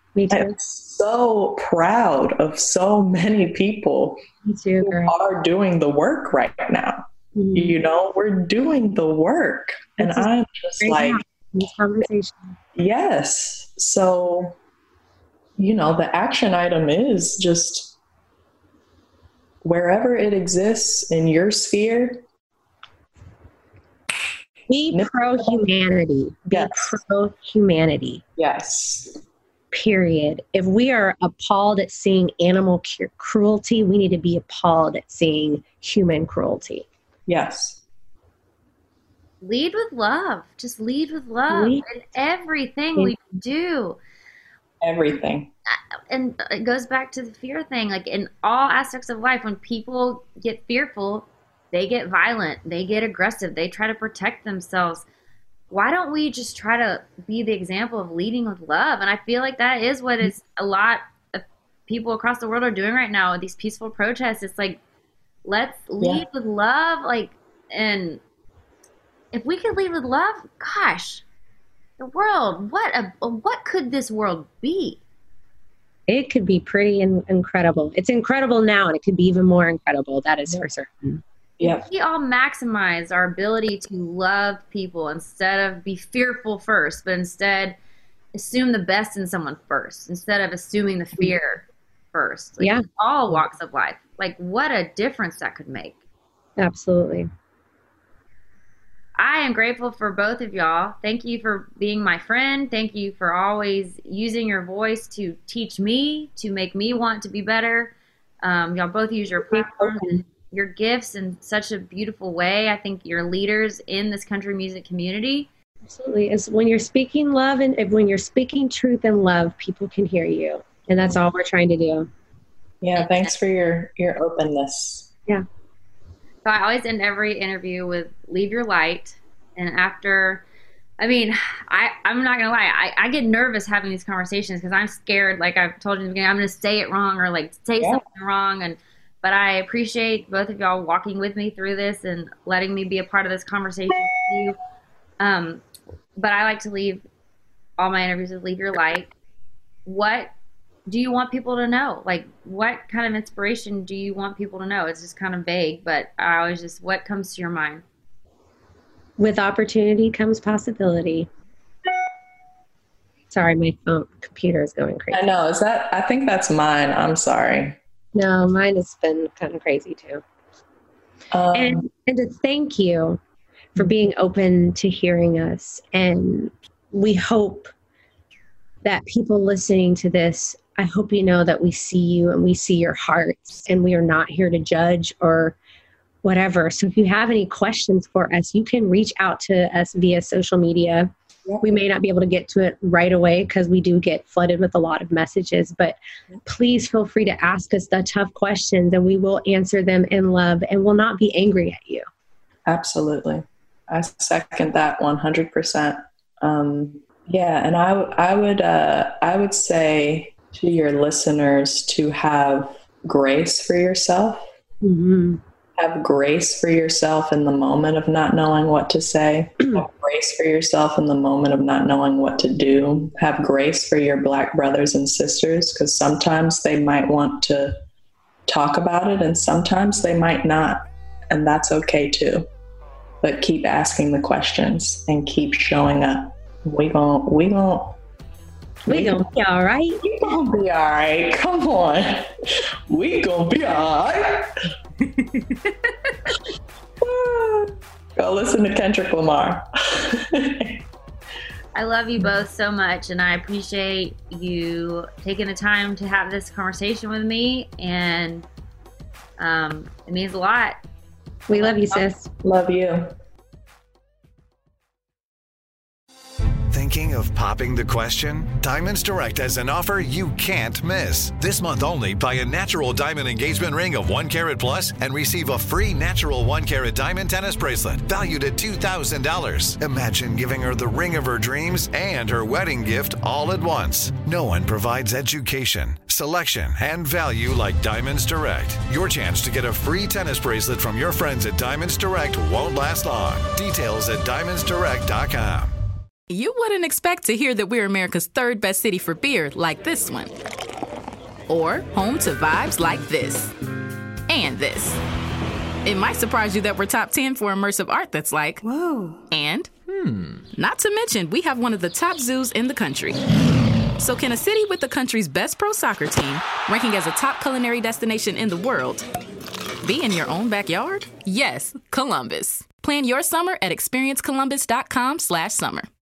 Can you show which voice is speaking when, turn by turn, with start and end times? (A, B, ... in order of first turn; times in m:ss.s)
0:00.1-0:00.5 A
0:00.3-0:04.2 B
0:04.4-0:05.1 A
0:04.8-0:11.2 B
0:07.3-0:07.8 A
0:10.0-0:10.3 A
0:10.8-0:12.5 A
0:12.8-0:14.6 B
0:15.6-0:18.0 B
0:19.6-0:22.2 B
0:24.7-0:28.2 A
0:24.9-0:25.6 B
0:26.5-0:27.0 B
0:28.4-0:29.2 B
0:29.7-0:36.9 A
0:37.3-0:37.8 B
0:39.4-0:44.0 C
0:41.5-0:41.8 A
0:44.8-0:45.5 B
0:45.7-0:55.0 C
0:55.7-1:04.8 C
1:05.4-1:08.2 C
1:09.3-1:11.2 C
1:12.0-1:15.0 C
1:16.1-1:21.2 A
1:21.6-1:21.8 B
1:21.6-1:27.8 C
1:28.3-1:36.0 C
1:36.6-1:37.3 A
1:39.2-1:55.5 C
1:49.5-1:50.2 A
1:55.9-2:02.1 A
2:02.8-2:05.1 B
2:03.0-2:03.3 C
2:06.4-2:10.4 C
2:11.0-2:24.6 C
2:25.2-2:25.6 C
2:26.2-2:27.0 C
2:27.8-2:29.1 C
2:29.8-2:30.3 C
2:30.9-2:37.8 C
2:39.2-2:41.3 A
2:43.3-2:45.3 A
2:45.1-2:47.8 B
2:48.1-2:50.2 A
2:51.3-2:51.8 B
2:51.5-2:53.2 A
2:53.8-2:57.7 A
2:58.8-3:05.6 A
3:06.2-3:11.1 A
3:11.6-3:22.0 A
3:22.7-3:34.5 B
3:34.8-3:35.4 A
3:35.8-3:47.8 B
3:48.5-3:52.5 B
3:53.2-3:58.0 B
3:58.9-4:00.0 A
3:58.9-3:59.2 B
4:00.0-4:02.3 B
4:02.9-4:04.5 B
4:07.0-4:10.8 B
4:11.7-4:18.4 C
4:19.4-4:20.8 C
4:21.5-4:22.3 A
4:21.5-4:23.1 B
4:26.7-4:55.7 D
4:56.3-5:00.3 E
5:01.5-5:03.5 E
5:04.3-5:05.0 E
5:05.8-5:08.6 E
5:09.3-5:13.2 E
5:14.0-5:19.0 E
5:19.8-5:25.9 E